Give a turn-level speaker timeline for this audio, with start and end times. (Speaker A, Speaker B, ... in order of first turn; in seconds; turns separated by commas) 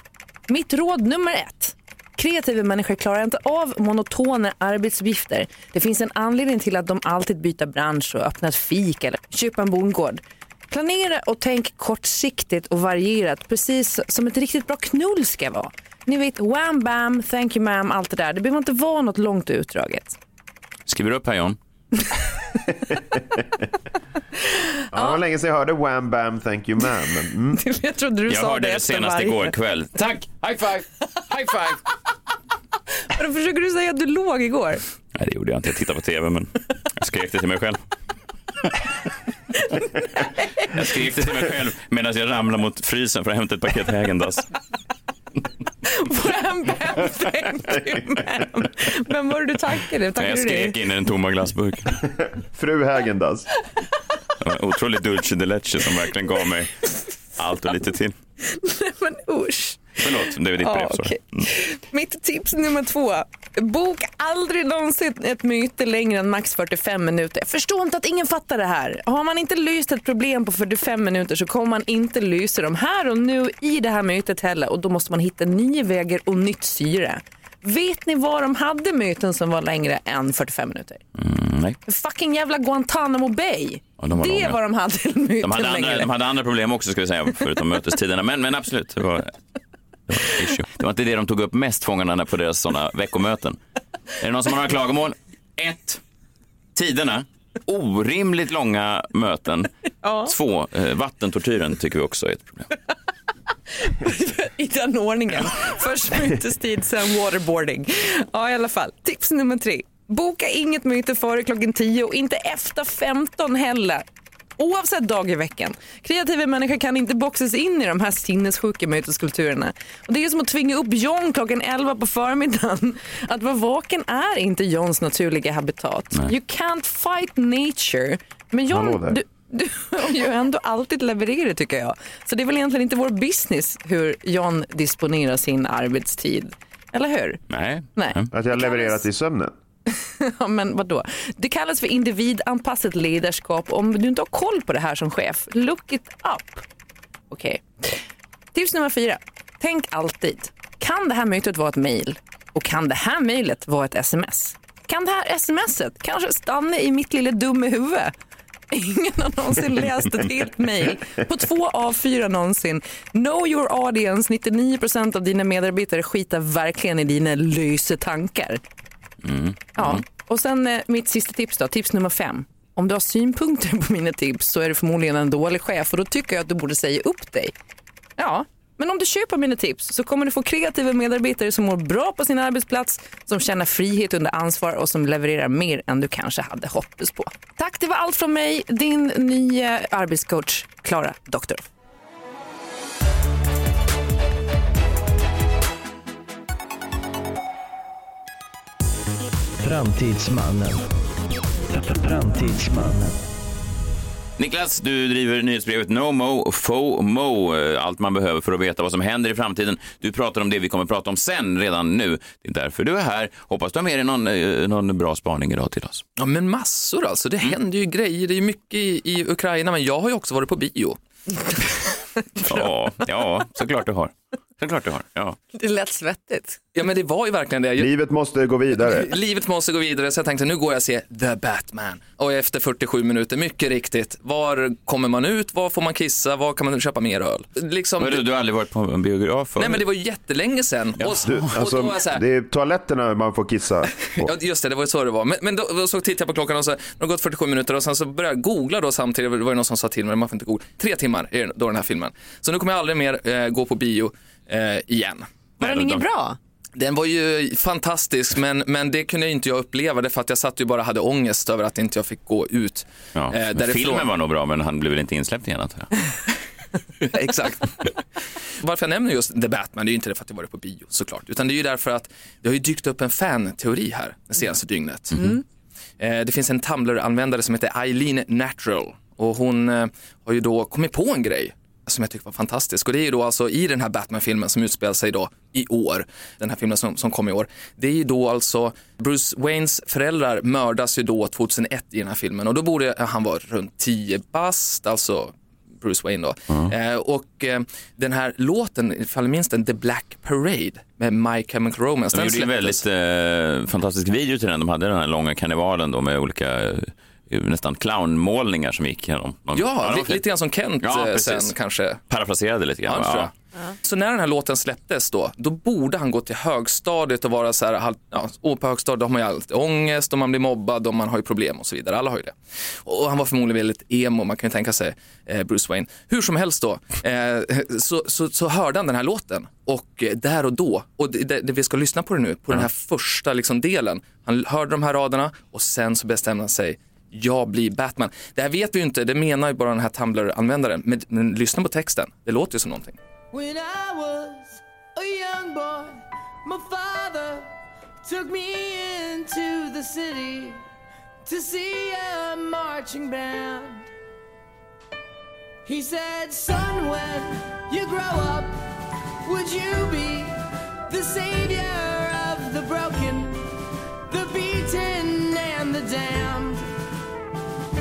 Speaker A: 0.5-20.2, Speaker B: 20.9-21.6, Speaker C: 22.9-23.4, Speaker C: 24.9-27.6, Speaker A: 24.9-25.2, Speaker A: 27.6-29.5, Speaker B: 28.3-31.8, Speaker A: 33.1-34.8, Speaker B: 35.1-37.8, Speaker B: 40.6-44.5, Speaker A: 45.8-50.8, Speaker B: 50.2-52.0, Speaker C: 52.0-53.5, Speaker B: 54.4-58.1, Speaker A: 58.4-60.0, Speaker B: 60.0-61.4, Speaker A: 60.6-81.0, Speaker B: 81.2-81.8, Speaker A: 81.8-86.1, Speaker B: 84.0-84.6, Speaker B: 85.4-89.3, Speaker B: 90.1-93.6, Speaker B: 94.2-96.0, Speaker B: 96.7-99.7, Speaker A: 100.0-100.3, Speaker B: 100.2-102.7, Speaker A: 103.7-114.0, Speaker A: 114.6-137.4, Speaker C: 128.7-129.2, Speaker B: 137.5-138.3, Speaker A: 137.9-139.0, Speaker C: 138.3-139.5, Speaker A: 139.9-146.6, Speaker A: 147.3-148.0, Speaker A: 148.5-158.1, Speaker A: 158.7-168.6, Speaker B: 169.2-170.0, Speaker A: 169.8-177.5, Speaker A: 178.2-191.6, Speaker D: 199.6-200.9, Speaker D: 201.7-203.2, Speaker B: 204.4-216.0, Speaker E: 216.2-221.0, Speaker A: 222.4-222.7, Speaker B: 222.4-225.4, Speaker A: 225.5-226.6, Speaker E: 226.7-227.9, Speaker C: 227.8-229.1, Speaker E: 228.8-238.2, Speaker B: 238.0-239.8, Speaker E: 239.6-242.2, Speaker B: 241.0-241.4, Speaker C: 241.2-244.3, Speaker E: 244.2-255.3, Speaker B: 255.6-256.0, Speaker A: 255.6-256.4, Speaker E: 256.7-264.1, Speaker B: 263.1-265.9, Speaker E: 267.0-267.9, Speaker E: 268.6-275.4, Speaker E: 276.0-302.8, Speaker B: 302.1-310.2, Speaker E: 309.5-312.0, Speaker B: 310.8-311.5, Speaker B: 312.1-313.3, Speaker E: 312.9-313.3, Speaker E: 313.8-343.0, Speaker F: 348.6-350.3, Speaker F: 351.4-353.7, Speaker F: 355.8-358.5, Speaker F: 359.3-360.3, Speaker F: 360.9-363.3, Speaker F: 364.2-366.6